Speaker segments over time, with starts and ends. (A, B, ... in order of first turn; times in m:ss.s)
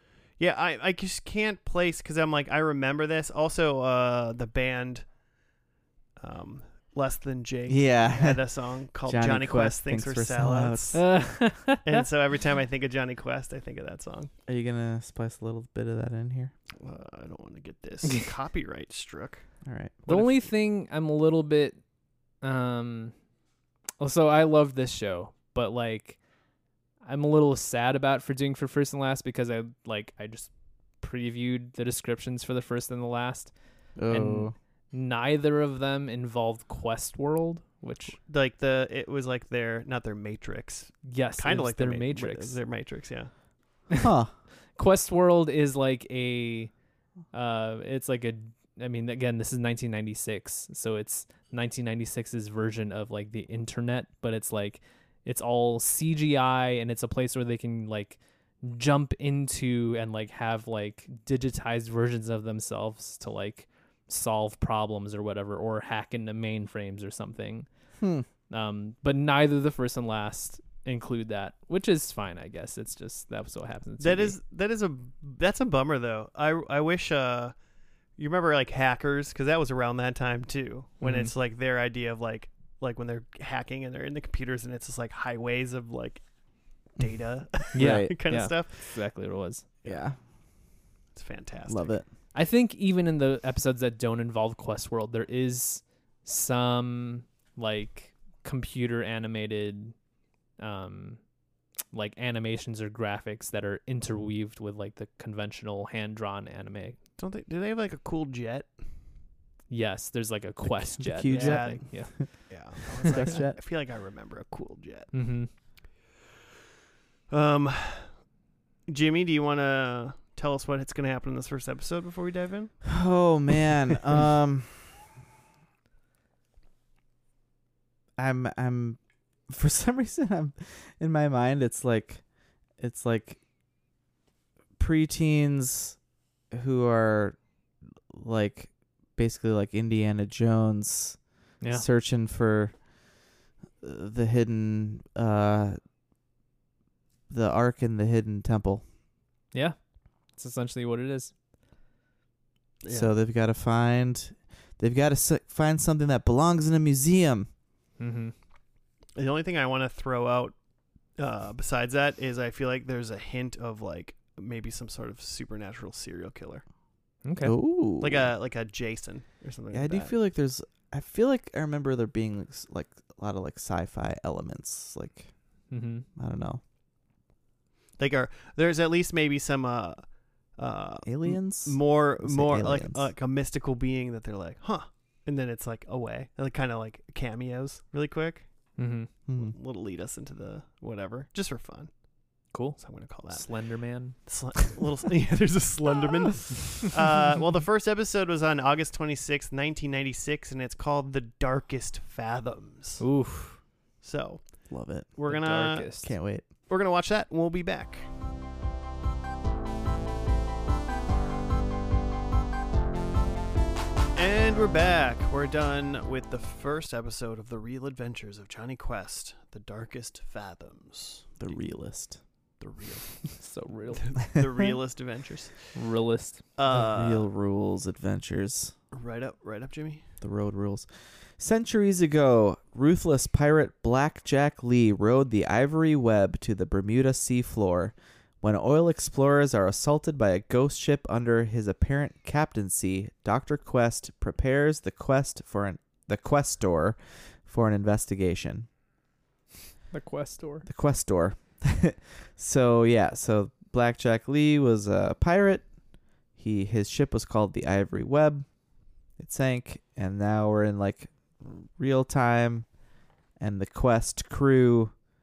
0:00.4-0:05.0 A
0:06.2-0:11.0 A
0:07.7-0:08.4 B
0:09.0-0:11.0 B
0:10.9-0:12.0 C
0:11.8-0:14.3 A
0:14.5-0:16.5 B
0:16.8-0:19.4 A
0:19.6-0:20.0 B
0:20.0-0:20.4 A
0:20.1-0:21.8 C
0:22.4-0:23.1 C
0:24.0-0:26.2 C
0:27.0-0:33.5 C
0:34.0-0:34.5 B
0:34.1-0:38.2 C
0:38.2-0:43.3 A
0:41.0-0:42.6 C
0:44.0-0:44.3 B
0:44.8-0:46.7 C
0:47.3-1:07.7 C
1:08.0-1:08.2 B
1:08.5-1:14.4 C
1:14.0-1:17.5 A
1:18.2-1:26.2 A
1:21.0-1:21.3 C
1:27.0-1:29.0 A
1:27.7-1:28.1 B
1:27.7-1:29.7 C
1:29.8-1:30.2 B
1:31.1-1:31.9 A
1:31.7-1:32.0 B
1:32.3-1:39.9 C
1:40.6-1:41.2 C
1:41.9-1:47.0 C
1:47.2-1:48.7 A
1:49.7-1:52.5 C
1:51.0-1:52.3 B
1:51.3-1:51.9 A
1:52.5-1:55.2 A
1:53.0-1:53.6 B
1:55.1-1:55.5 C
1:57.3-1:58.2 A
1:58.9-2:02.8 A
2:02.8-2:05.1 B
2:08.2-2:12.2 B
2:12.8-2:13.4 B
2:14.8-2:16.0 B
2:16.5-2:17.4 B
2:18.1-2:22.7 B
2:23.8-2:25.8 B
2:27.3-2:28.8 B
2:29.5-2:29.8 C
2:30.3-2:31.3 C
2:32.8-2:33.1 A
2:32.9-2:37.5 B
2:38.0-2:38.3 C
2:39.2-2:40.5 A
2:41.2-2:46.6 A
2:47.2-2:47.5 C
2:47.4-2:48.3 B
2:48.0-2:50.1 A
2:49.7-2:55.3 B
2:55.7-2:56.0 C
2:56.2-2:56.6 B
2:58.0-3:00.0 A
3:00.6-3:08.5 A
3:01.0-3:03.1 B
3:08.8-3:09.1 C
3:09.3-3:09.5 B
3:09.3-3:11.9 A
3:12.5-3:14.2 C
3:12.8-3:13.5 A
3:14.1-3:23.0 A
3:23.0-3:23.6 C
3:24.0-3:26.0 A
3:24.7-3:25.2 B
3:25.3-3:26.1 C
3:26.0-3:26.5 B
3:26.7-3:28.1 A
3:34.1-3:41.4 A
3:41.4-3:42.2 B
3:42.6-3:43.4 A
3:43.4-3:44.2 C
3:43.9-3:45.7 A
3:45.7-3:46.4 C
3:46.6-3:47.3 A
3:46.7-3:48.7 B
3:48.9-3:50.0 A
3:50.2-4:08.7 B
4:09.9-4:10.7 C
4:10.6-4:15.7 B
4:16.4-4:18.5 B
4:19.2-4:22.7 B
4:23.4-4:24.9 B